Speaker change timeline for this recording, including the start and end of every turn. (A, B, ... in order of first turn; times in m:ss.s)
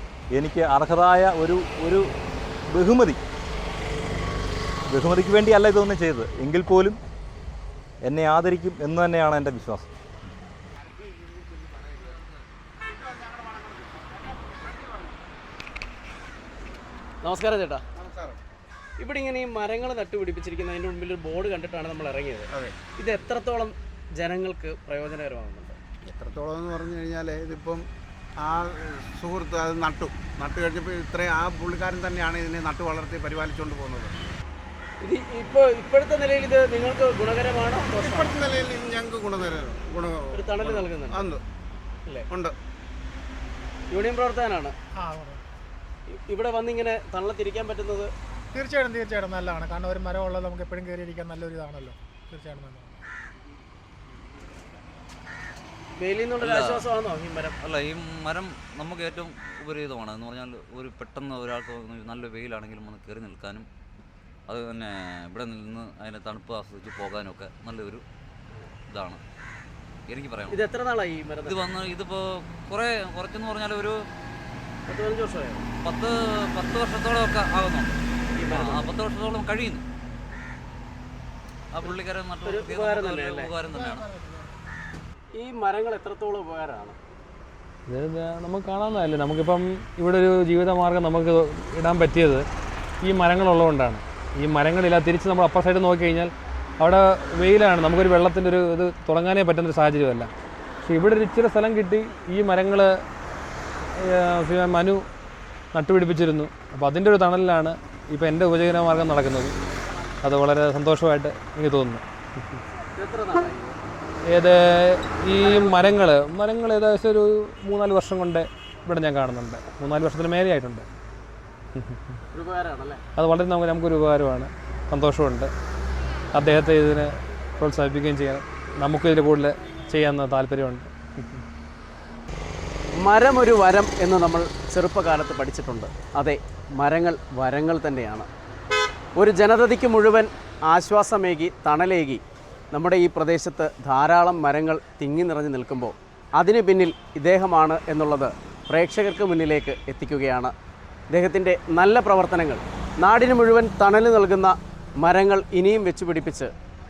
0:00.3-0:02.1 A
0:02.7-0:03.2 A
0:04.9-0:07.0 A
0:08.0-0:09.9 A
0:11.2-0:11.9 B
0:17.2-0:17.8 C
0:18.0-0:18.4 B
0:19.0-0:25.8 C
0:26.1-0:27.9 B
0:28.4-0:34.1 B
0:35.0-0:38.4 C
0:38.0-0:41.4 B
0:40.3-0:41.3 C
0:42.3-0:42.6 B
0:43.9-0:44.7 C
0:45.0-0:45.4 D
0:46.2-0:48.1 C
0:48.5-0:53.0 D
0:56.0-0:57.6 C
0:56.4-0:56.8 E
0:57.6-1:03.7 E
1:04.5-1:08.0 E
1:08.9-1:09.2 E
1:10.1-1:10.6 E
1:10.5-1:11.6 C
1:11.4-1:14.0 E
1:14.9-1:15.7 C
1:15.8-1:19.8 E
1:18.3-1:18.9 C
1:21.7-1:24.2 E
1:22.4-1:23.5 C
1:24.0-1:24.4 D
1:25.4-1:27.0 C
1:27.9-1:32.5 F
1:33.0-1:40.3 F
1:40.8-1:42.9 F
1:44.0-1:45.0 F
1:45.7-1:49.5 F
1:50.2-1:52.0 F
1:52.9-1:53.8 C
1:54.3-2:00.8 F
2:01.7-2:02.0 F
2:02.3-2:03.0 C
2:03.2-2:05.5 F
2:06.3-2:11.4 F
2:13.0-2:18.3 C
2:19.2-2:30.5 C
2:31.1-2:36.5 C